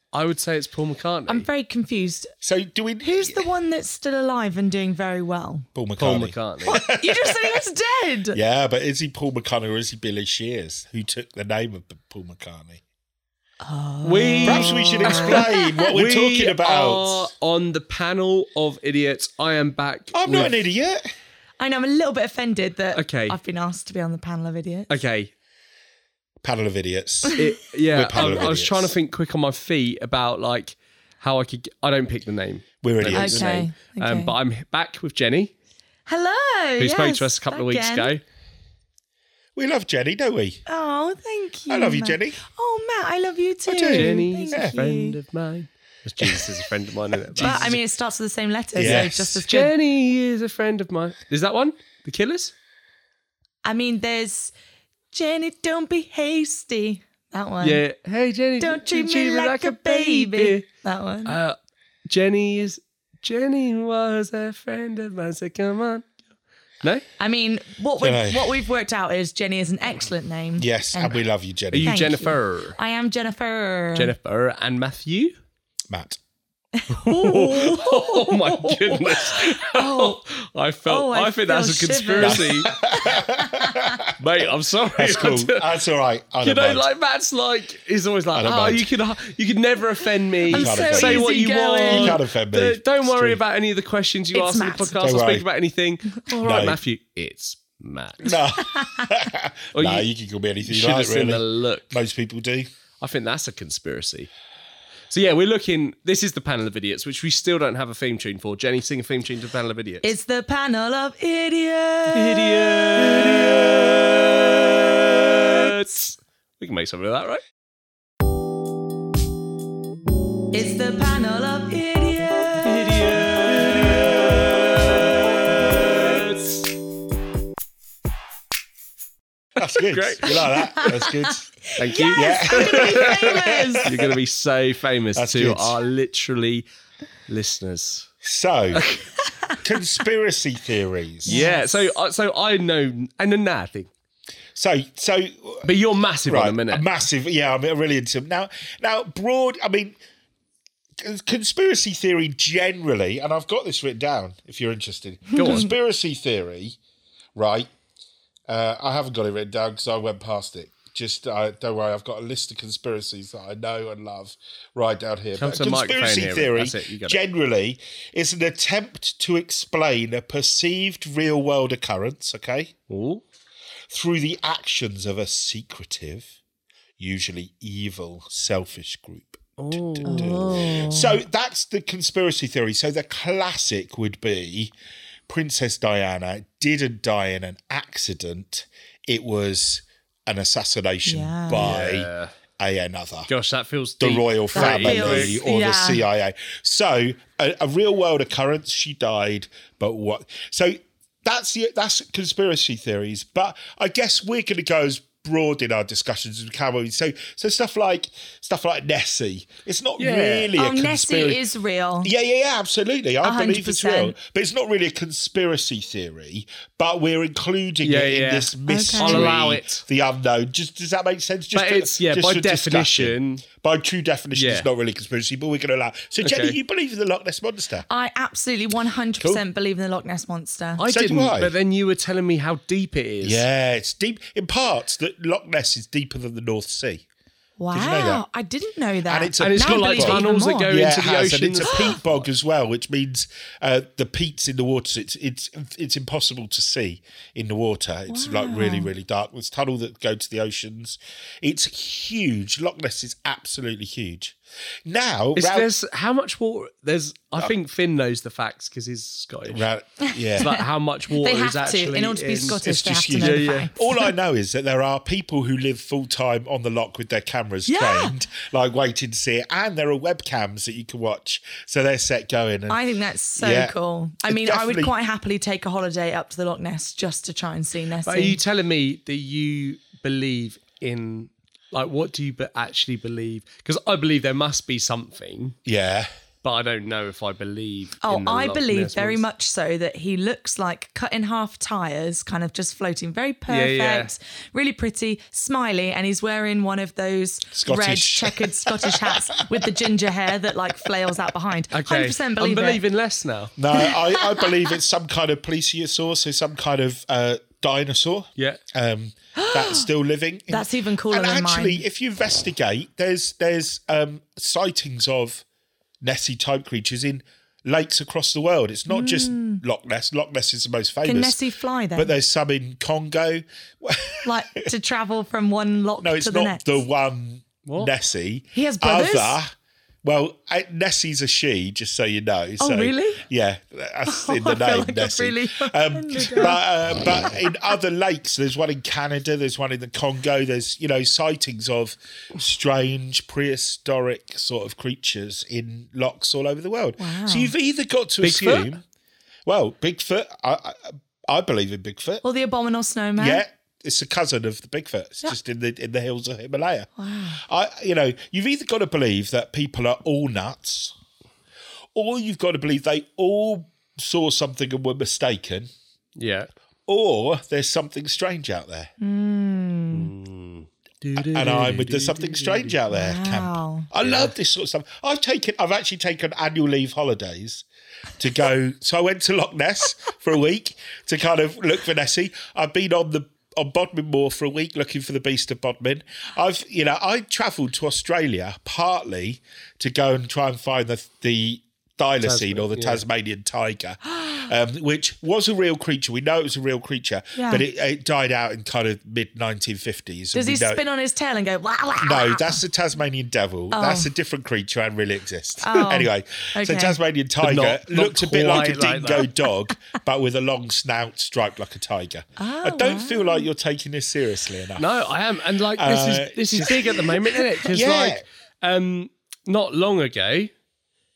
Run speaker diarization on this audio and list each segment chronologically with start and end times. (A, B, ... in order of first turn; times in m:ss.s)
0:00.1-0:01.5 A
0:01.3-0:02.3 B
0:02.4-0:03.5 C
0:03.0-0:05.7 B
0:05.8-0:07.6 C
0:06.0-0:06.7 A
0:06.6-0:08.4 B
0:08.3-0:12.8 C
0:13.6-0:15.9 B
0:14.0-0:20.6 A
0:14.4-0:17.3 C
0:20.1-0:21.0 C
0:21.6-0:24.9 B
0:23.0-0:23.4 A
0:24.9-0:25.3 A
0:26.4-0:28.9 C
0:27.4-0:35.5 A
0:32.8-0:33.6 C
0:33.1-0:34.3 B
0:36.1-0:38.2 B
0:36.8-0:38.2 A
0:39.6-0:40.6 C
0:40.7-0:45.2 B
0:41.7-0:42.4 C
0:43.7-0:44.8 C
0:43.9-0:47.8 A
0:46.2-0:46.7 C
0:47.2-0:47.8 C
0:47.4-0:49.7 B
0:48.8-0:49.5 C
0:48.8-0:52.5 A
0:53.6-0:54.5 B
0:55.1-0:57.8 B
0:57.6-1:00.6 A
0:58.6-1:01.4 B
1:01.3-1:01.6 A
1:02.1-1:06.1 A
1:07.2-1:11.2 B
1:08.0-1:08.7 C
1:10.6-1:12.1 C
1:11.7-1:12.8 A
1:11.8-1:14.1 B
1:14.0-1:15.4 A
1:15.9-1:16.2 C
1:16.8-1:20.2 B
1:16.9-1:22.7 A
1:20.9-1:24.0 B
1:22.2-1:24.2 C
1:24.2-1:25.6 A
1:25.0-1:26.9 C
1:26.4-1:38.4 A
1:28.3-1:28.9 C
1:30.5-1:33.4 C
1:30.5-1:32.2 B
1:34.3-1:35.0 B
1:35.0-1:35.5 C
1:36.2-1:36.7 B
1:36.4-1:36.8 C
1:38.2-1:42.7 C
1:38.6-1:39.1 B
1:39.8-1:40.1 A
1:40.6-1:42.0 A
1:43.0-1:44.3 A
1:45.1-1:50.1 A
1:50.0-1:53.5 B
1:52.1-1:57.4 A
1:55.3-1:55.7 B
2:00.5-2:03.8 B
2:02.7-2:06.7 A
2:03.7-2:04.8 C
2:05.1-2:05.4 B
2:09.6-2:11.5 C
2:09.6-2:10.9 A
2:10.4-2:13.9 B
2:11.8-2:16.7 A
2:12.1-2:14.2 C
2:15.2-2:15.8 C
2:17.3-2:18.1 A
2:18.2-2:18.9 C
2:18.7-2:19.1 A
2:19.6-2:21.4 C
2:21.3-2:21.9 B
2:21.3-2:23.9 A
2:24.6-2:25.7 C
2:25.6-2:26.8 A
2:26.3-2:30.0 C
2:31.0-2:36.8 C
2:35.3-2:35.7 A
2:35.4-2:35.7 B
2:37.4-2:37.7 C
2:38.5-2:52.8 C
2:45.4-2:47.2 A
2:52.9-2:53.2 A
2:53.9-2:56.3 C
2:57.0-3:04.7 C
2:59.6-3:00.7 A
3:00.1-3:01.2 B
3:05.3-3:13.3 C
3:11.1-3:11.6 B
3:11.6-3:12.3 A
3:13.3-3:15.4 A
3:14.0-3:31.4 C
3:14.5-3:16.0 B
3:30.0-3:30.5 A
3:30.5-3:32.1 B
3:32.0-3:47.9 C
3:33.2-3:34.2 B
3:37.8-3:39.8 A
3:38.7-3:39.3 B
3:41.5-3:43.5 A
3:44.4-3:44.7 A
3:46.2-3:46.6 A
3:47.9-3:50.8 B
3:50.8-3:53.4 A
3:50.9-3:51.5 C
3:53.2-3:57.0 C
3:57.6-4:00.7 B
3:57.7-3:58.2 C
3:59.1-4:15.7 C
3:59.4-4:02.0 A
4:08.1-4:08.9 B
4:15.4-4:19.7 A
4:19.5-4:20.5 C
4:20.0-4:24.1 B
4:20.4-4:23.7 A
4:22.6-4:32.8 C
4:27.7-4:28.1 B
4:32.7-4:38.4 B
4:33.4-4:34.9 C
4:38.0-4:45.6 A
4:45.6-4:46.1 C
4:46.4-4:49.2 A
4:48.0-5:02.8 B
4:53.5-4:54.1 A
4:57.5-4:59.9 C
5:01.7-5:03.5 A
5:03.6-5:15.4 C
5:03.7-5:04.5 B
5:09.4-5:09.9 B
5:10.5-5:11.8 B
5:16.0-5:21.4 C
5:18.9-5:19.6 B
5:21.0-5:22.1 B
5:22.0-5:24.7 C
5:24.2-5:26.8 B
5:26.0-5:29.5 C
5:27.6-5:27.9 A
5:28.5-5:29.4 B
5:30.0-5:48.8 C
5:32.6-5:33.2 B
5:34.1-5:36.6 B
5:47.0-5:47.5 B
5:48.2-5:48.7 A
5:49.5-5:52.2 C
5:52.2-5:53.4 B
5:53.2-5:56.9 C
5:57.0-5:57.4 B
5:57.4-6:01.0 C
6:02.0-6:05.7 C
6:06.2-6:06.5 A
6:06.9-6:08.9 C
6:09.0-6:10.1 B
6:09.9-6:12.8 A
6:11.2-6:17.6 C
6:12.9-6:13.9 B
6:14.0-6:14.3 A
6:18.2-6:40.8 C
6:32.2-6:33.0 A
6:37.4-6:37.6 B
6:40.3-6:42.6 B
6:42.0-6:55.1 C
6:43.7-6:44.1 B
6:45.6-6:47.0 B
6:47.4-6:49.3 A
6:52.4-6:53.5 B
6:54.8-7:00.5 A
6:55.8-6:57.1 C
6:56.9-6:57.3 B
6:57.7-6:58.2 C